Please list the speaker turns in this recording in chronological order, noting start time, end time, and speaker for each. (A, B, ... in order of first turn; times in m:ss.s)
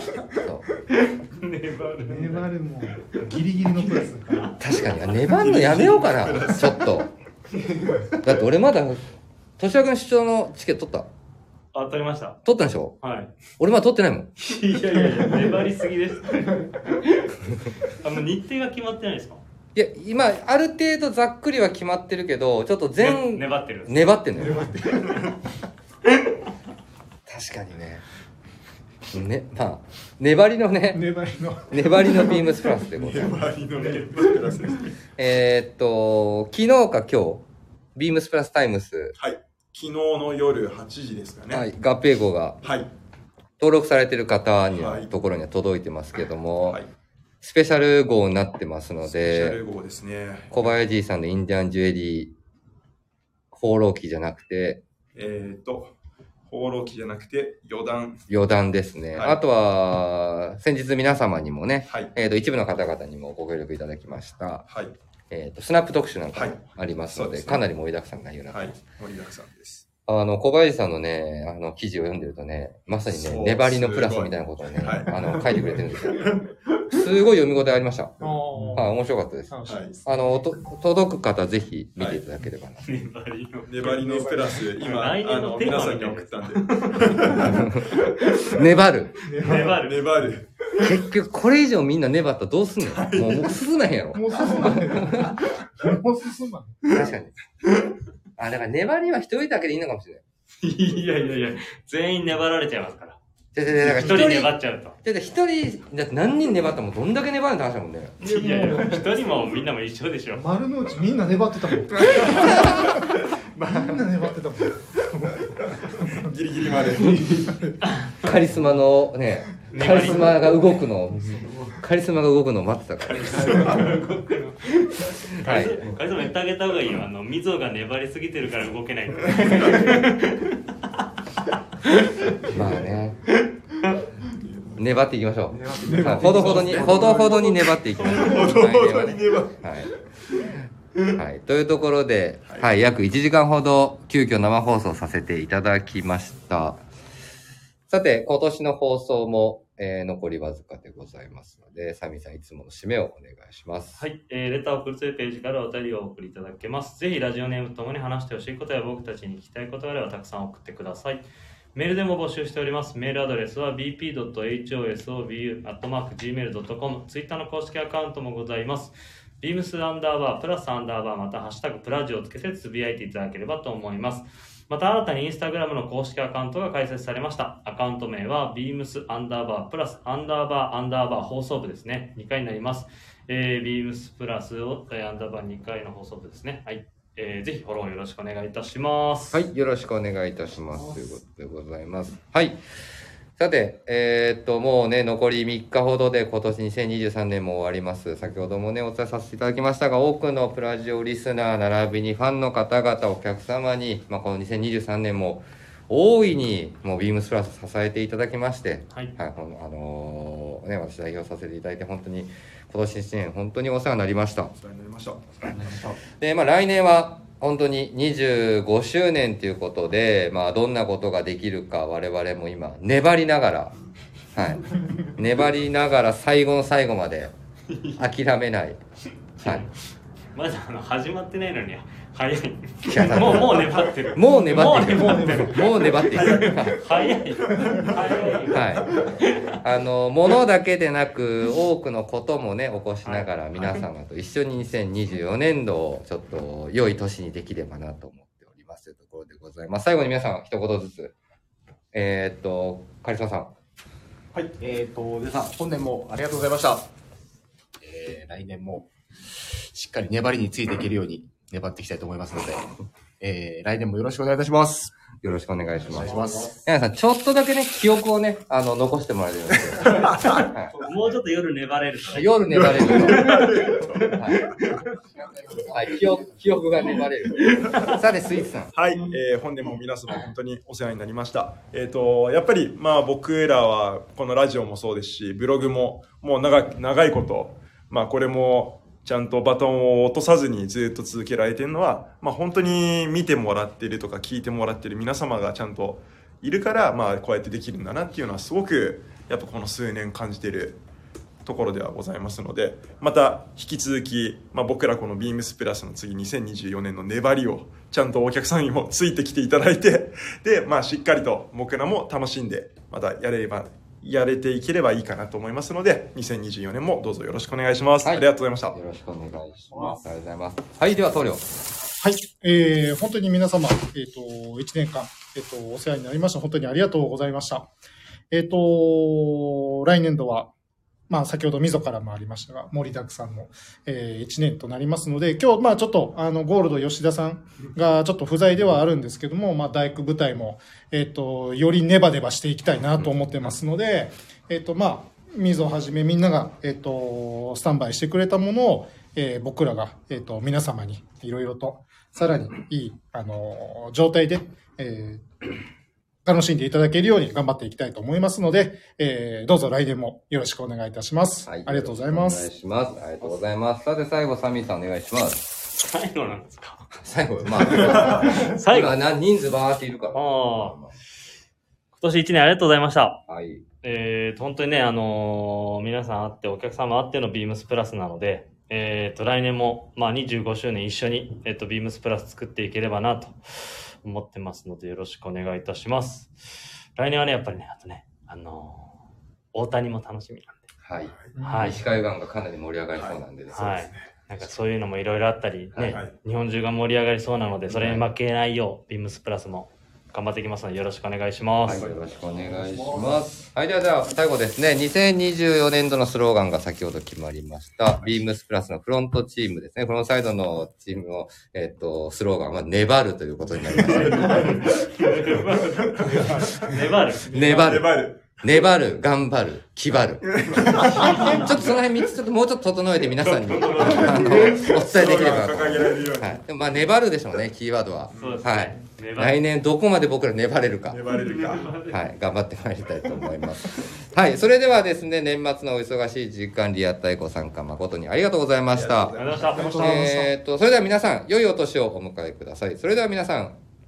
0:00.3-0:00.7 A
0:01.0-0:02.5 B
0:02.0-0:04.6 C
0:03.2-0:04.5 B
0:04.6-0:07.1 A
0:05.2-0:07.0 D
0:08.2-0:09.0 A
0:09.6-0:11.1 A
0:11.7-0:12.4 B
0:12.4-0:13.0 A
0:13.0-0:13.3 B
0:13.6-0:14.3 A
0:14.4-0:19.4 B
0:19.8-0:24.7 A
0:23.0-0:24.5 B
0:24.4-0:25.4 C
0:27.3-0:28.0 A
0:29.1-0:31.1 A
0:30.9-0:32.4 C
0:31.7-0:33.5 A
0:32.9-0:34.9 D
0:35.2-0:39.2 A
0:39.2-0:41.7 D
0:41.5-0:42.7 A
0:42.6-0:42.9 D
0:43.6-0:46.8 A
0:44.8-0:45.1 D
0:47.4-0:49.6 A
0:49.1-0:50.8 D
0:50.5-0:52.3 A
0:53.5-0:54.8 A
0:55.2-0:55.9 D
0:56.5-0:58.2 D
0:58.3-1:04.7 A
0:59.1-0:59.4 D
1:01.9-1:02.1 D
1:04.7-1:05.0 D
1:05.3-1:08.8 A
1:06.3-1:07.7 D
1:08.5-1:09.8 D
1:10.1-1:16.4 A
1:13.1-1:16.8 D
1:16.9-1:18.2 A
1:18.2-1:18.9 C
1:18.7-1:23.0 A
1:19.5-1:20.0 C
1:19.7-1:20.0 D
1:22.8-1:28.1 B
1:23.7-1:28.3 D
1:27.4-1:29.3 A
1:29.2-1:29.8 C
1:29.3-1:30.0 B
1:29.4-1:30.9 D
1:30.8-1:35.4 A
1:32.8-1:33.6 D
1:34.1-1:36.9 C
1:36.9-1:37.3 A
1:38.4-1:40.2 A
1:40.6-1:43.2 B
1:43.5-1:48.3 A
1:43.8-1:45.0 B
1:48.2-1:50.5 B
1:48.2-1:49.6 C
1:50.3-1:56.3 C
1:52.0-1:52.6 D
1:55.9-1:57.6 D
1:57.0-1:57.8 C
1:57.8-1:58.3 B
1:58.2-2:03.8 A
1:59.7-2:00.3 B
2:03.5-2:10.6 B
2:03.5-2:04.1 E
2:05.4-2:05.9 A
2:12.4-2:13.2 A
2:14.3-2:14.9 D
2:14.8-2:19.9 A
2:15.5-2:17.3 E
2:15.9-2:16.8 C
2:16.3-2:20.4 D
2:18.0-2:18.4 B
2:21.1-2:26.8 A
2:27.9-2:34.0 A
2:34.0-2:41.2 B
2:41.8-3:09.4 B
3:09.3-3:12.6 A
3:13.4-3:34.5 A
3:34.5-3:35.9 D
3:36.2-3:43.8 A
3:44.4-3:47.3 A
3:48.0-3:48.8 A
3:49.4-3:49.7 A
3:49.4-3:49.7 B
3:50.3-3:55.6 B
3:52.8-3:56.8 A
3:54.2-3:55.8 C
3:56.1-3:58.2 D
3:56.2-3:59.6 B
3:57.5-3:58.1 C
3:58.5-3:59.0 A
3:59.6-4:11.1 A
4:03.0-4:03.8 B
4:11.9-4:13.5 A
4:14.6-4:16.9 E
4:17.8-4:24.9 E
4:25.2-4:30.8 A
4:25.8-4:26.6 E
4:29.9-4:30.4 D
4:30.3-4:33.8 B
4:32.1-4:33.4 A
4:32.5-4:34.4 D
4:34.2-4:34.5 A
4:34.4-4:34.7 B
4:34.5-4:36.6 E
4:35.7-4:38.7 A
4:37.6-4:38.0 B
4:38.7-5:00.8 D
5:01.4-5:18.8 D
5:18.0-5:21.4 A
5:22.0-5:27.7 C
5:28.3-5:30.5 C
5:31.1-5:55.5 C
5:56.2-6:02.5 C
6:01.5-6:05.5 A
6:05.8-6:06.9 B
6:06.9-6:10.9 A
6:07.7-6:08.4 D
6:08.2-6:09.0 B
6:10.1-6:10.8 B
6:12.0-6:13.2 B
6:13.3-6:13.6 A
6:13.8-6:30.7 B
6:30.8-6:33.9 A
6:31.1-6:31.4 D
6:31.4-6:31.8 C
6:31.4-6:31.8 B
6:33.0-6:33.2 D
6:33.5-6:41.8 B
6:33.8-6:34.0 D
6:35.7-6:36.0 A
6:37.7-6:38.0 A
6:41.6-6:54.7 A
6:41.7-6:42.0 D
6:42.6-6:43.2 D
6:53.7-6:56.7 D
6:53.7-6:57.8 B
6:57.2-7:11.0 A
6:57.4-6:58.4 D
7:00.2-7:01.9 D
7:00.8-7:01.6 B
7:03.2-7:06.4 D
7:03.8-7:04.4 B
7:08.1-7:08.5 D
7:08.1-7:09.4 B
7:10.9-7:11.8 D
7:11.1-7:12.1 B
7:11.9-7:19.2 A
7:18.7-7:19.9 D
7:19.2-7:20.0 B
7:19.5-7:20.3 C
7:19.7-7:23.6 A